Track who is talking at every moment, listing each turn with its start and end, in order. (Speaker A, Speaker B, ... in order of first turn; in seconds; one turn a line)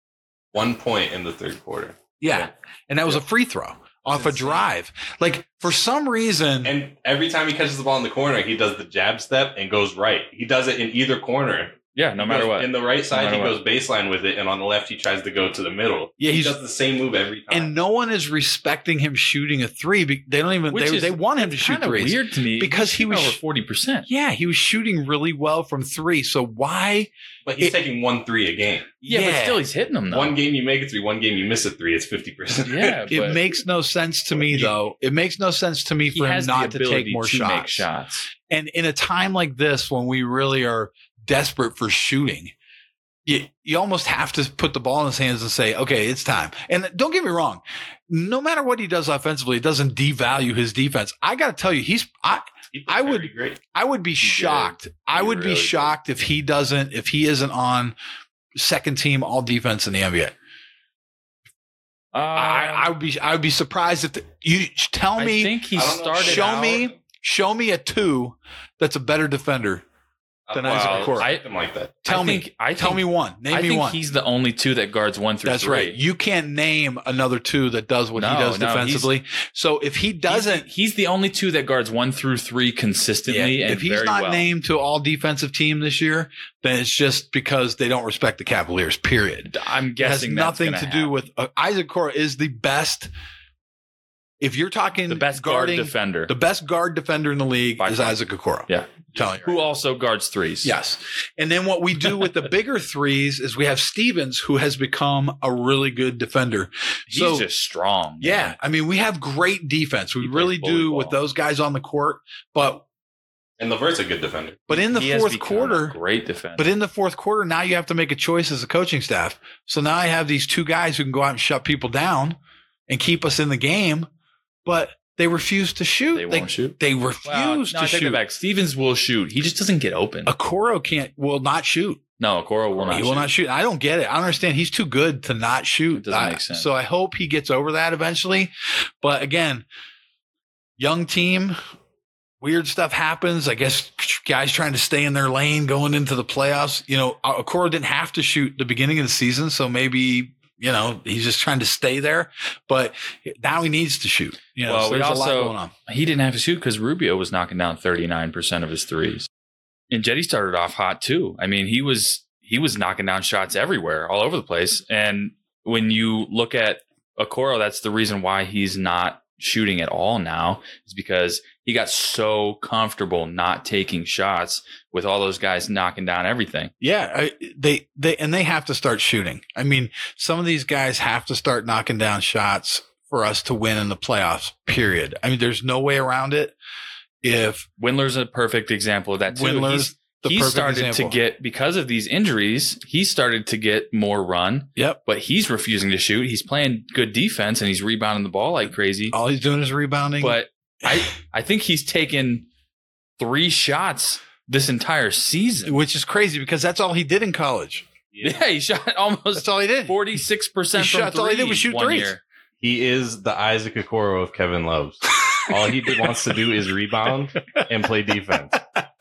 Speaker A: 0.5-2.0
Speaker B: 2.2-6.7
Speaker A: 4.0-4.6
Speaker A: 6.6-17.8
Speaker C: 11.9-13.6
Speaker B: 16.2-16.6
Speaker B: 17.5-23.4
Speaker C: 20.7-24.1
Speaker B: 24.1-27.8
Speaker A: 27.4-28.9
Speaker B: 29.0-29.6
Speaker C: 29.1-30.4
Speaker A: 30.1-33.4
Speaker C: 32.7-33.4
Speaker B: 33.1-37.9
Speaker C: 36.1-38.3
Speaker B: 38.4-42.5
Speaker B: 43.2-57.9
Speaker A: 52.7-53.6
Speaker C: 54.2-56.0
Speaker B: 58.5-60.3
Speaker C: 62.1-62.9
Speaker B: 62.3-65.6
Speaker C: 65.2-66.9
Speaker A: 65.7-67.0
Speaker B: 66.2-69.8
Speaker A: 70.5-72.0
Speaker B: 70.5-71.3
Speaker C: 70.7-71.4
Speaker B: 72.0-74.0
Speaker C: 72.0-76.0
Speaker B: 75.4-80.7
Speaker C: 78.1-79.1
Speaker C: 80.3-84.4
Speaker B: 83.3-93.1
Speaker C: 89.4-91.1
Speaker B: 94.4-99.6
Speaker C: 95.1-96.3
Speaker C: 97.8-100.7
Speaker B: 100.6-107.5
Speaker C: 107.1-108.6
Speaker B: 108.2-112.8
Speaker C: 110.2-111.2
Speaker A: 113.6-114.7
Speaker B: 114.7-116.0
Speaker C: 114.8-116.7
Speaker B: 116.5-122.4
Speaker B: 122.9-124.1
Speaker B: 124.6-128.2
Speaker C: 126.1-130.3
Speaker B: 130.2-132.0
Speaker C: 132.2-133.3
Speaker B: 132.8-139.6
Speaker C: 135.9-136.7
Speaker B: 140.8-141.6
Speaker B: 142.4-155.7
Speaker C: 154.6-159.3
Speaker C: 159.9-176.7
Speaker B: 176.8-186.5
Speaker B: 187.2-187.7
Speaker C: 187.8-199.2
Speaker B: 189.3-191.2
Speaker B: 199.1-201.0
Speaker C: 200.2-202.4
Speaker C: 203.2-205.8
Speaker B: 205.6-207.9
Speaker A: 208.1-208.4
Speaker C: 208.2-212.2
Speaker B: 209.3-210.0
Speaker B: 210.8-212.1
Speaker A: 212.6-218.6
Speaker B: 215.2-216.3